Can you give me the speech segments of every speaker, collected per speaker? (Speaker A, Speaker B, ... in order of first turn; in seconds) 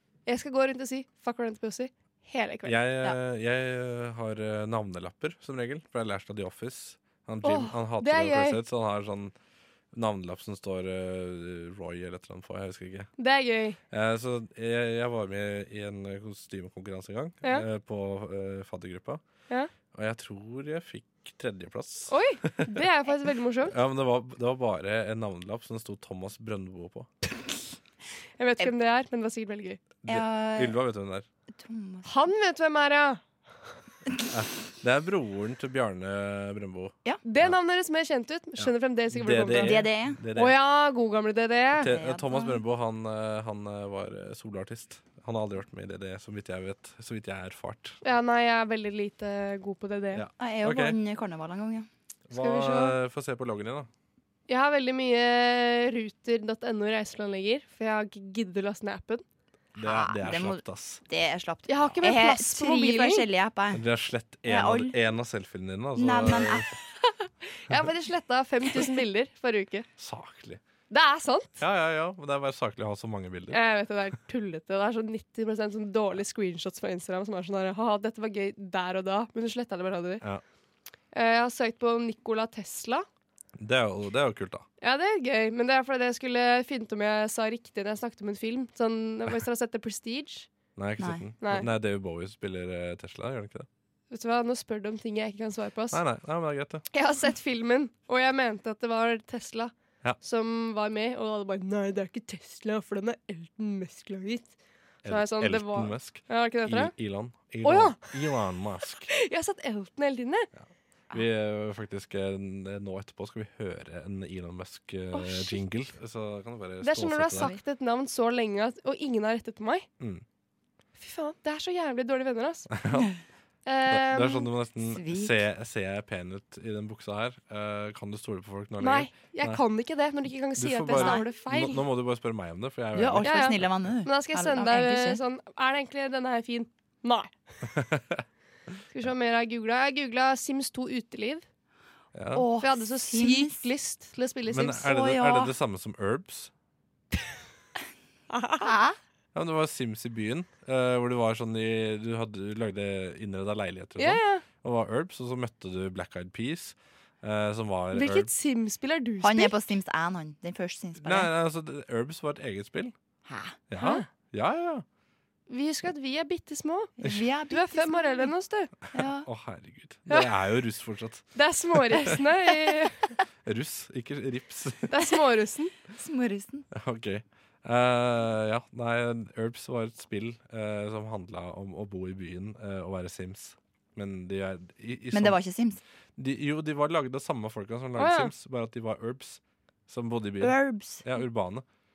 Speaker A: 0.3-2.8, 7.4-8.6, 13.2-13.8, 22.1-23.7, 28.4-29.8, 32.0-33.2, 37.2-41.9, 48.0-50.2, 52.3-53.0, 54.5-59.2, 61.7-63.3, 67.5-69.9, 70.9-71.6, 73.5-80.2, 81.1-83.0, 84.8-90.5, 91.4-91.7, 94.1-96.0, 96.9-107.0, 107.6-108.4, 109.1-110.5, 115.1-115.6, 116.8-119.9, 121.0-122.7, 123.7-124.5, 128.8-131.8, 133.2-137.4, 138.9-141.4, 142.6-144.9, 148.3-148.7, 154.0-154.4, 157.9-159.6, 163.8-164.1, 165.5-166.9, 167.5-168.7, 171.3-173.2, 174.9-175.7, 188.0-188.3
Speaker B: 2.6-9.3, 9.9-13.1, 13.9-19.2, 19.9-22.7, 23.7-27.1, 30.0-31.3, 34.3-37.5, 38.6-40.6, 41.8-48.0, 50.1-51.0, 52.3-53.9, 59.8-61.0, 63.7-66.7, 70.0-70.6, 71.6-73.6, 83.6-84.7, 90.8-93.7, 95.9-96.9, 105.0-109.1, 110.6-117.5, 122.7-123.1, 123.9-129.6, 130.6-133.9, 137.8-138.2, 142.1-142.5, 144.5-146.5, 149.3-158.3, 161.0-162.9, 163.7-164.8, 168.9-172.2, 173.4-174.9, 176.7-185.4, 186.2-191.6
Speaker C: 30.1-30.8, 31.5-32.1, 39.5-40.2, 41.8-42.6, 50.4-51.9, 59.8-63.8, 64.5-65.0, 66.0-66.7, 124.9-125.4, 130.9-131.2, 132.9-135.2, 142.3-143.6, 144.8-145.5, 148.6-149.0, 159.2-161.3, 163.3-163.6, 167.0-168.3, 168.9-169.3, 175.9-176.7, 185.1-185.8, 190.4-191.0